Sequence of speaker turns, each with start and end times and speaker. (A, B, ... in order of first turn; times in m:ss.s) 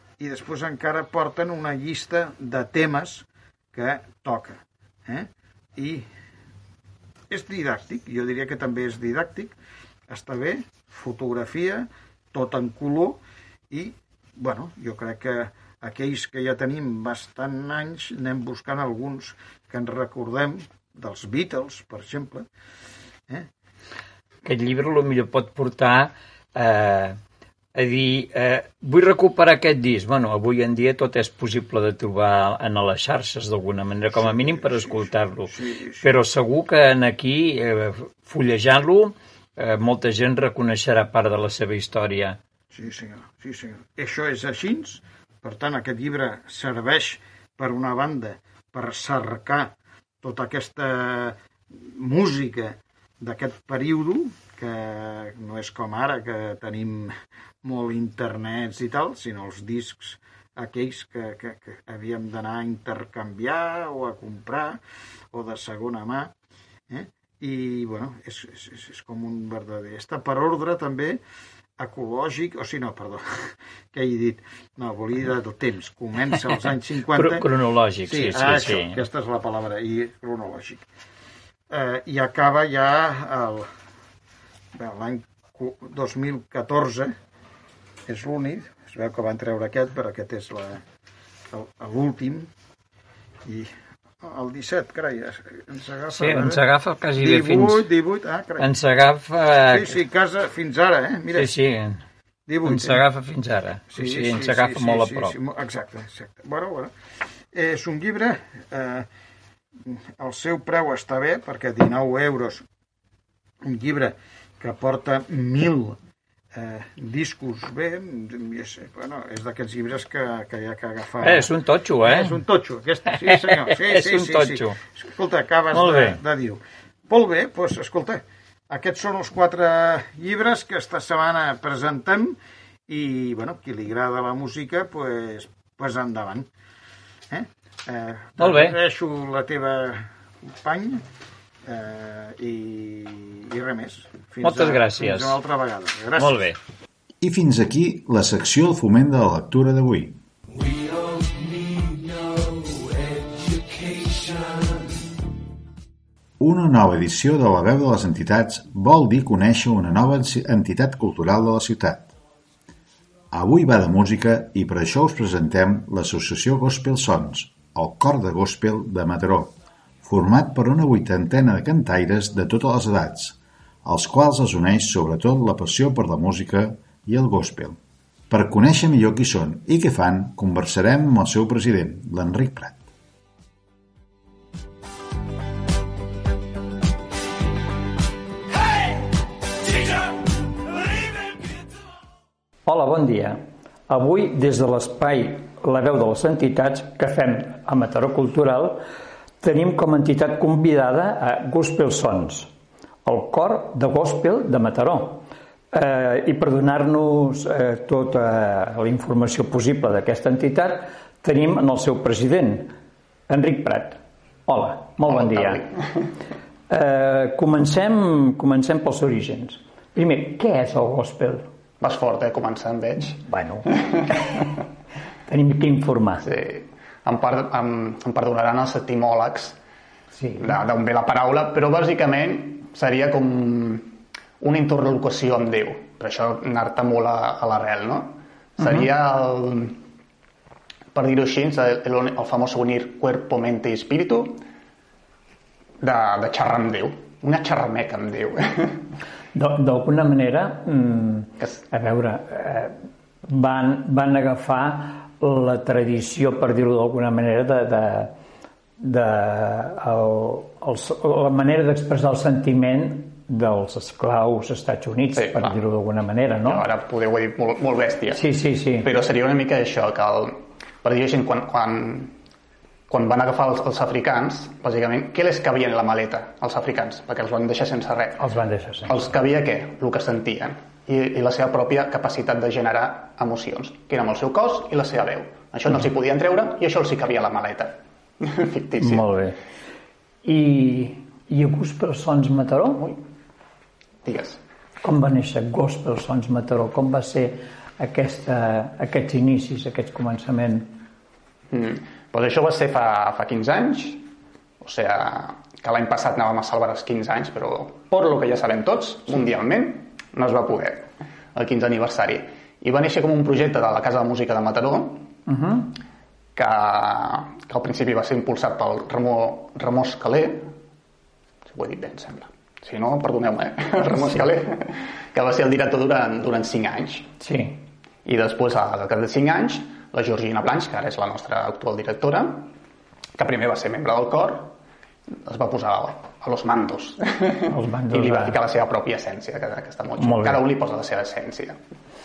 0:00.2-0:06.1 A
0:07.3-0:09.6 A
0:10.1-0:13.2 A
0:13.7-0:22.5 A
0:24.4-0:27.2 B
0:27.8-0:35.5 B
0:34.2-0:36.1 A
0:36.0-0:42.4 B
0:42.7-1:04.8 A
1:05.3-1:06.3 A
1:06.9-1:11.2 A
1:11.8-1:17.5 A
1:17.2-1:19.0 B
1:18.0-1:20.8 A
1:21.7-1:23.7 A
1:24.8-1:27.2 A
1:28.1-1:30.8 A
1:31.5-1:32.5 A
1:33.4-1:33.7 A
1:34.2-1:36.6 A
1:36.2-1:37.9 B
1:37.2-1:38.7 A
1:38.6-1:39.9 B
1:39.7-1:41.5 A
1:41.4-1:42.0 B
1:42.5-1:43.0 A
1:42.6-1:45.3 B
1:43.9-1:46.9 A
1:47.5-1:49.1 A
1:49.8-1:52.6 A
1:53.6-1:56.0 A
1:56.5-2:12.4 A
2:01.2-2:02.3 B
2:03.8-2:04.8 B
2:05.7-2:06.2 B
2:12.9-2:16.5 A
2:17.3-2:21.0 A
2:18.4-2:18.8 B
2:21.7-2:26.4 A
2:24.4-2:25.4 B
2:26.2-2:26.6 B
2:27.2-2:30.2 C
2:36.4-2:42.1 C
2:43.3-2:57.8 C
2:58.3-3:02.8 C
3:12.7-3:13.4 D
3:13.9-3:18.8 D
3:19.4-3:22.5 D
3:23.1-3:25.2 D
3:25.8-3:32.7 D
3:33.3-3:35.6 D
3:35.1-3:36.1 E
3:36.7-3:41.5 D
3:41.8-3:44.0 E
3:43.2-3:44.3 D
3:45.3-3:46.2 D
3:46.2-3:49.6 E
3:50.2-3:50.6 D
3:50.4-3:59.8 E
4:00.9-4:04.4 E
4:05.8-4:08.8 E
4:09.4-4:12.8 D
4:13.3-4:18.1 D
4:18.8-4:26.7 D
4:25.2-4:25.6 E
4:26.5-4:28.2 E
4:28.1-4:28.9 D
4:28.8-4:32.1 E
4:32.9-4:38.2 E
4:38.2-4:39.0 D
4:38.9-4:49.1 E
4:48.8-4:49.4 D
4:50.2-4:52.9 D
4:54.0-4:54.4 E
4:54.8-5:00.7 D
5:01.5-5:04.0 E
5:04.6-5:15.2 E
5:15.3-5:15.6 D
5:16.4-5:20.5 E
5:21.5-5:27.1 E
5:27.2-5:27.6 D
5:28.0-5:32.5 E
5:33.2-5:34.5 E
5:35.2-5:41.6 E
5:37.5-5:38.4 D
5:40.0-5:40.5 D